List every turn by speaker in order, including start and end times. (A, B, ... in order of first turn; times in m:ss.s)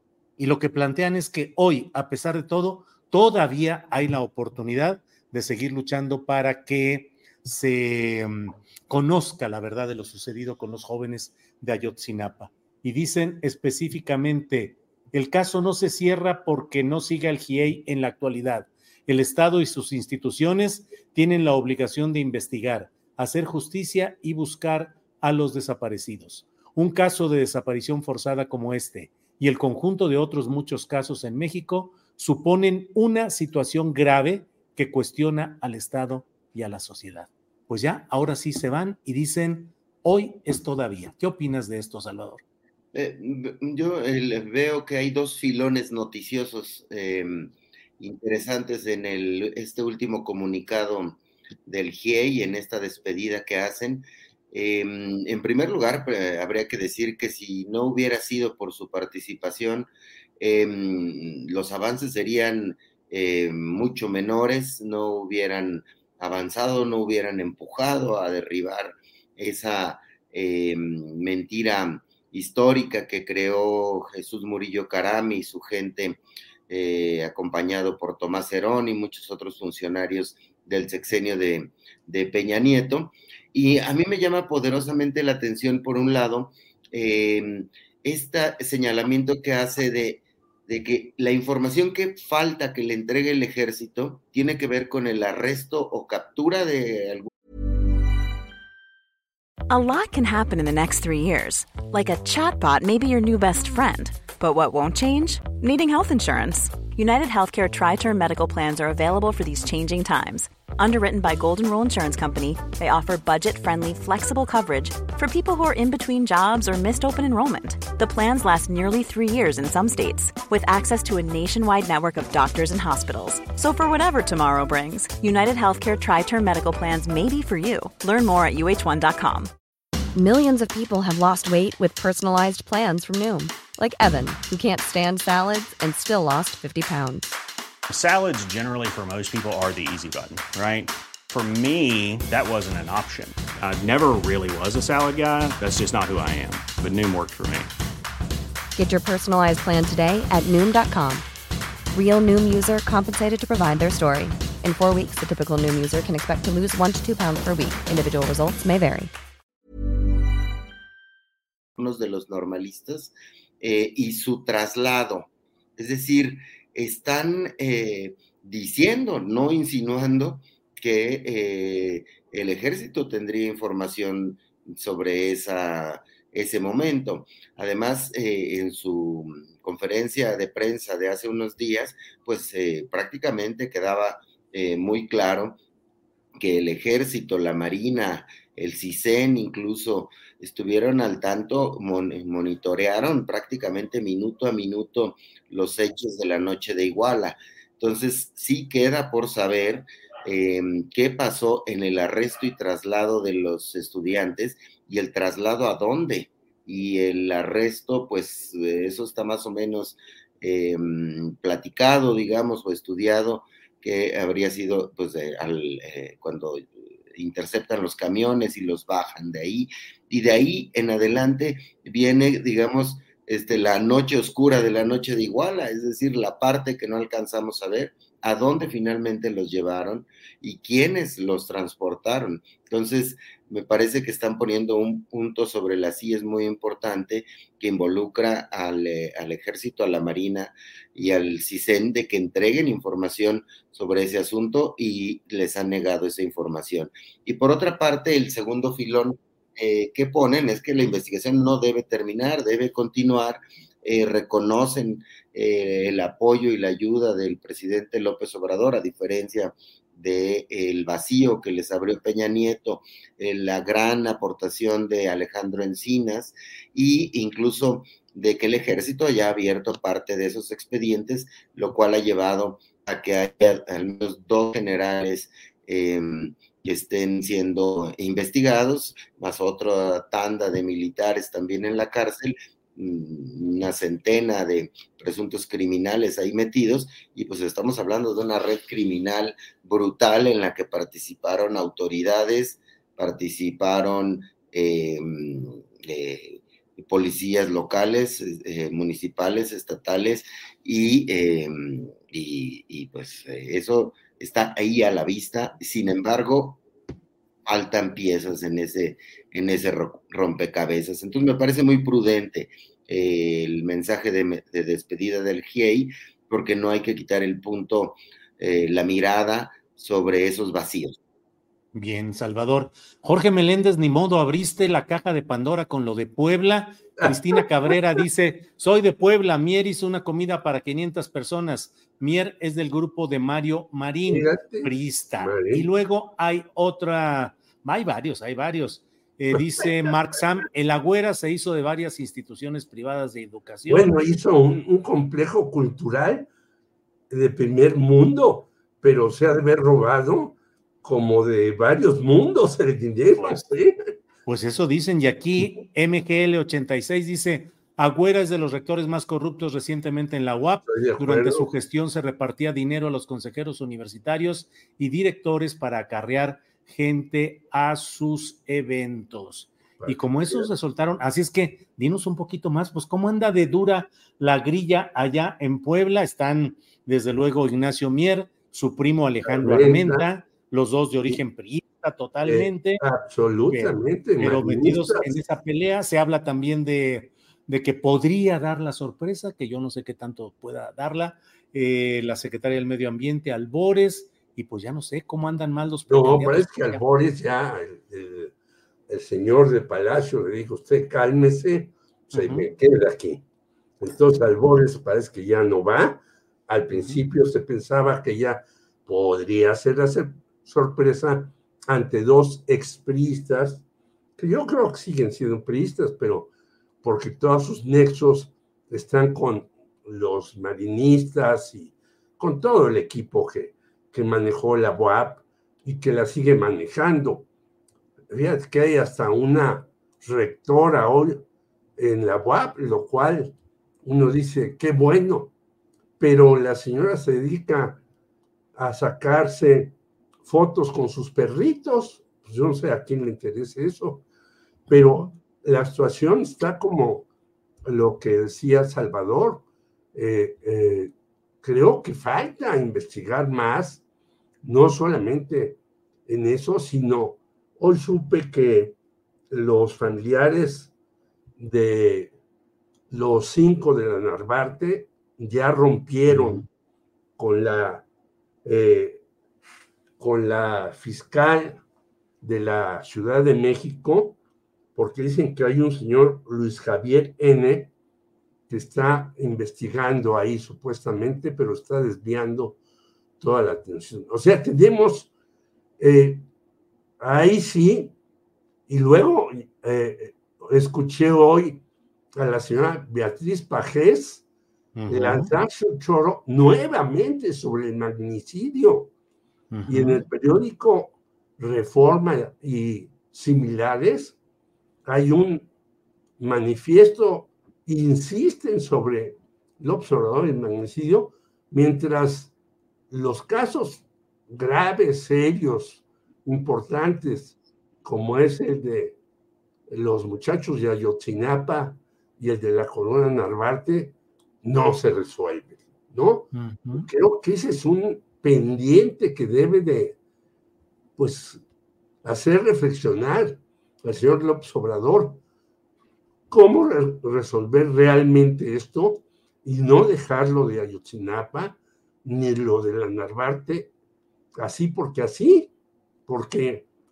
0:00.4-0:42.4 A
0:42.9-1:37.3 B
1:39.7-2:09.5 C
2:10.2-2:17.4 D
2:17.9-2:27.7 E
2:28.8-2:31.3 D
2:31.9-2:39.1 D
2:41.8-3:05.6 B
3:06.4-5:06.6 B
5:07.5-5:21.0 B
5:21.7-5:43.9 A
5:27.0-5:27.7 F
5:34.1-5:35.7 F
5:43.7-5:46.3 F
5:47.1-5:53.8 F
5:54.3-6:22.8 A
6:00.7-6:01.5 F
6:09.8-6:10.5 F
6:19.2-6:20.1 F
6:22.2-6:25.1 F
6:23.5-6:36.8 A
6:35.9-6:38.3 F
6:38.9-6:43.2 F
6:42.1-6:42.5 A
6:43.8-6:53.6 F
6:46.7-6:47.0 A
6:54.2-6:56.3 F
6:56.8-7:07.3 F
7:08.1-7:11.2 F
7:11.8-7:15.3 F
7:16.0-7:17.8 F
7:18.6-7:24.0 F
7:24.7-7:27.1 F
7:27.6-7:33.8 F
7:34.4-7:38.8 F
7:39.3-7:40.7 F
7:41.4-7:42.2 F
7:42.9-7:46.5 F
7:46.1-7:46.4 A
7:47.2-7:47.9 F
7:48.4-7:49.0 F
7:50.0-7:51.6 F
7:52.2-7:54.2 F
7:54.8-7:57.7 F
7:58.5-8:02.6 F
8:03.2-8:05.1 F
8:05.8-8:06.2 F
8:07.0-8:07.9 F
8:08.7-8:11.6 F
8:12.1-8:14.2 F
8:14.8-8:15.3 A
8:14.9-8:18.9 F
8:19.5-8:20.0 A
8:19.7-8:24.2 F
8:24.8-8:25.5 F
8:26.2-8:32.3 F
8:32.9-8:39.0 F
8:39.7-8:50.0 F
8:46.3-8:46.9 A
8:51.0-8:51.4 F
8:52.0-8:55.2 F
8:56.3-9:03.7 F
9:04.4-9:05.5 F
9:06.1-9:06.7 F